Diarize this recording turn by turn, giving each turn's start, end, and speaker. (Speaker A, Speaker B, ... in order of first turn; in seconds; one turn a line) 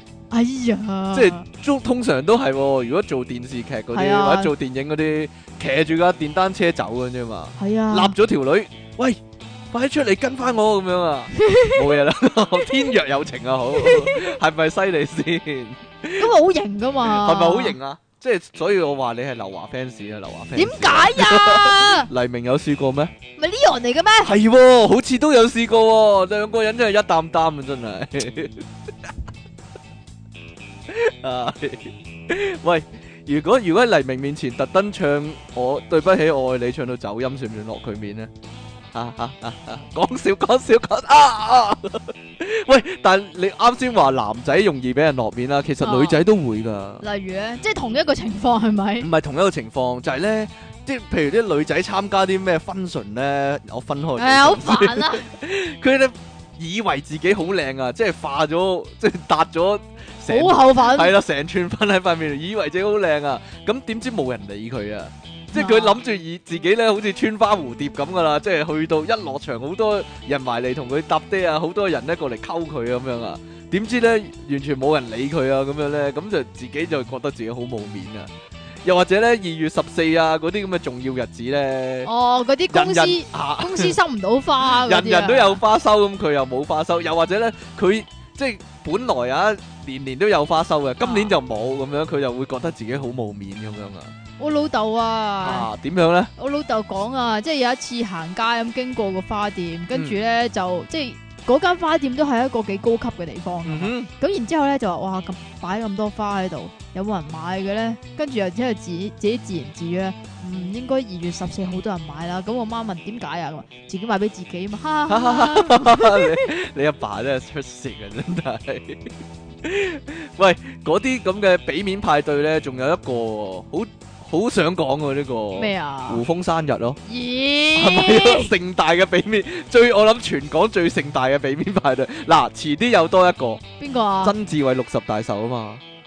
Speaker A: 0.3-1.4
Speaker B: 1.1-9.2
Speaker A: 3.9-4.5
Speaker A: 7.6-8.2
Speaker B: 9.7-16.3
Speaker A: 11.4-11.8
Speaker A: 13.8-14.3
Speaker A: 16.2-17.8
Speaker B: 17.0-23.1
Speaker A: 20.6-22.1
Speaker A: 23.4-24.3
Speaker B: 24.2-29.1
Speaker B: 30.9-38.3
Speaker B: 38.9-47.0
Speaker A: 45.8-46.2
Speaker A: 47.0-49.1
Speaker B: 49.0-78.3
Speaker A: 54.2-55.2
Speaker A: 60.3-61.1
Speaker A: 65.5-66.0
Speaker B: 78.8-82.1
Speaker A: 82.0-85.6
Speaker B: 82.7-83.9
Speaker B: 84.6-94.1
Speaker A: 91.0-91.3
Speaker A: 94.4-95.7
Speaker B: 95.4-96.3
Speaker A: 96.4-116.4
Speaker B: 103.7-104.1
Speaker B: 115.1-119.1
Speaker B: 119.6-127.0
Speaker A: 125.5-126.2
Speaker A: 127.1-128.5
Speaker B: 127.7-133.6
Speaker A: 133.8-134.3
Speaker B: 134.2-135.8